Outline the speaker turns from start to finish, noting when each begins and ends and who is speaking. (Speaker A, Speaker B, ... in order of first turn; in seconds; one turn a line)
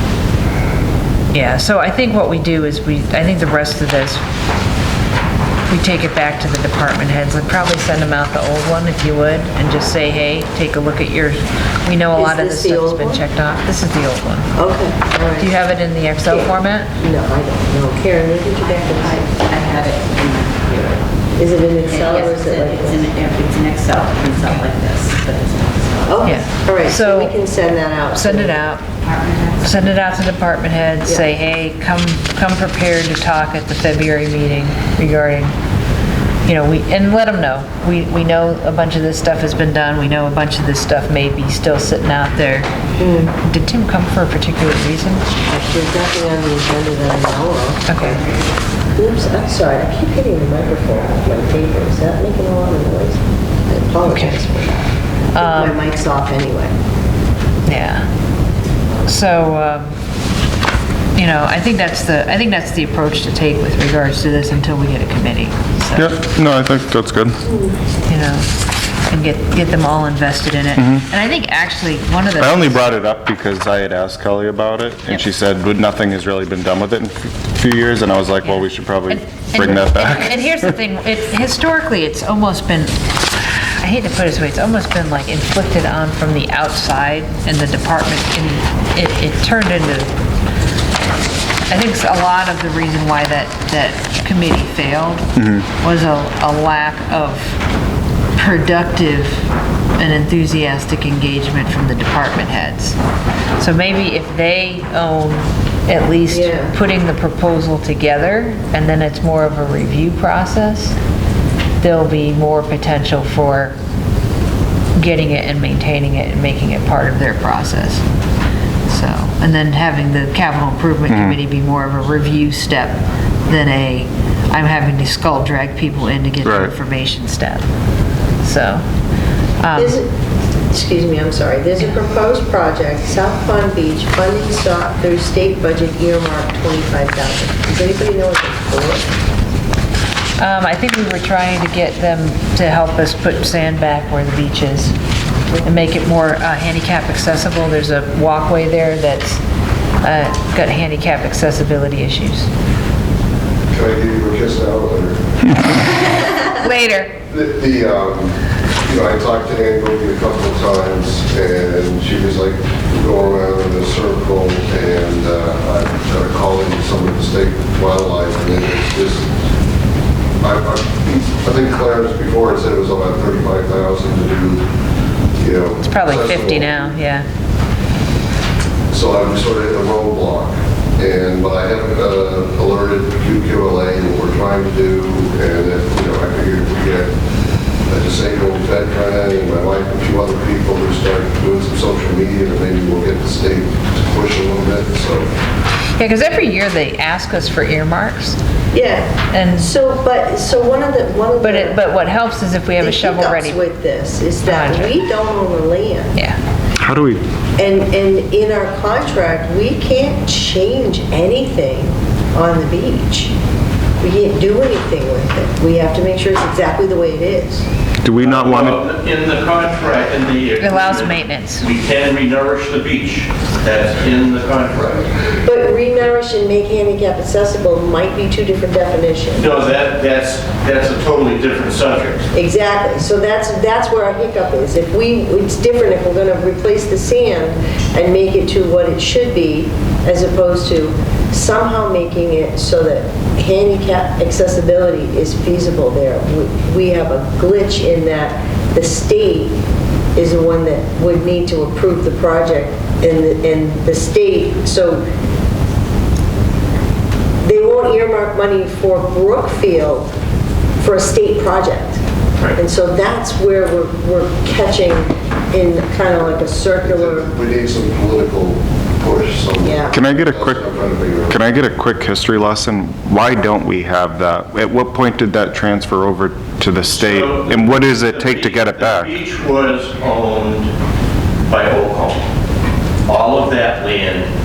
Speaker A: 1.3-4.2
Speaker A: 5.7-14.5
Speaker B: 12.1-13.2
Speaker B: 14.5-15.5
Speaker A: 15.4-16.9
Speaker B: 16.2-19.4
Speaker C: 18.6-21.0
Speaker B: 21.4-23.1
Speaker C: 21.7-26.4
Speaker A: 24.4-24.7
Speaker B: 26.1-28.6
Speaker A: 26.2-27.4
Speaker A: 28.1-28.9
Speaker C: 29.0-30.0
Speaker A: 29.6-35.5
Speaker A: 36.4-42.7
Speaker B: 43.0-43.3
Speaker A: 43.3-45.2
Speaker B: 45.5-48.2
Speaker A: 47.9-48.2
Speaker B: 48.9-56.7
Speaker A: 54.1-54.4
Speaker A: 55.3-55.8
Speaker A: 57.6-58.1
Speaker A: 59.0-59.9
Speaker A: 61.1-66.2
Speaker D: 66.0-67.4
Speaker B: 67.5-67.8
Speaker A: 68.1-68.5
Speaker A: 69.1-72.8
Speaker D: 70.8-71.0
Speaker D: 72.4-80.4
Speaker A: 79.1-90.1
Speaker A: 91.7-97.5
Speaker D: 95.4-95.6
Speaker A: 98.4-99.4
Speaker A: 100.0-103.0
Speaker A: 103.6-111.0
Speaker B: 106.3-106.7
Speaker A: 111.8-113.8
Speaker A: 115.0-118.0
Speaker A: 118.9-127.6
Speaker D: 121.1-121.3
Speaker D: 126.4-126.7
Speaker A: 128.4-128.8
Speaker A: 129.6-129.9
Speaker B: 129.7-130.1
Speaker B: 130.7-139.1
Speaker A: 140.4-144.9
Speaker A: 145.6-149.4
Speaker A: 150.0-152.5
Speaker E: 153.7-155.2
Speaker A: 156.5-157.1
Speaker E: 157.3-169.3
Speaker E: 170.4-174.7
Speaker E: 175.4-176.8
Speaker A: 175.8-177.2
Speaker E: 178.9-187.1
Speaker E: 187.9-195.3
Speaker A: 196.0-198.4
Speaker B: 198.7-201.8
Speaker A: 199.3-199.7
Speaker A: 201.4-203.6
Speaker B: 202.8-206.1
Speaker A: 204.4-205.0
Speaker D: 206.8-207.2
Speaker B: 207.6-213.3
Speaker B: 214.0-217.7
Speaker D: 218.0-218.8
Speaker F: 218.2-225.1
Speaker A: 220.6-221.7
Speaker B: 225.4-229.5
Speaker F: 229.4-232.3
Speaker B: 232.3-249.6
Speaker B: 250.1-255.0
Speaker B: 257.4-260.1
Speaker B: 260.8-262.0
Speaker B: 262.6-267.3
Speaker E: 266.8-271.4
Speaker B: 269.6-270.0
Speaker D: 269.9-270.6
Speaker D: 271.3-279.1
Speaker F: 276.9-280.7
Speaker F: 281.5-282.2
Speaker F: 283.1-284.3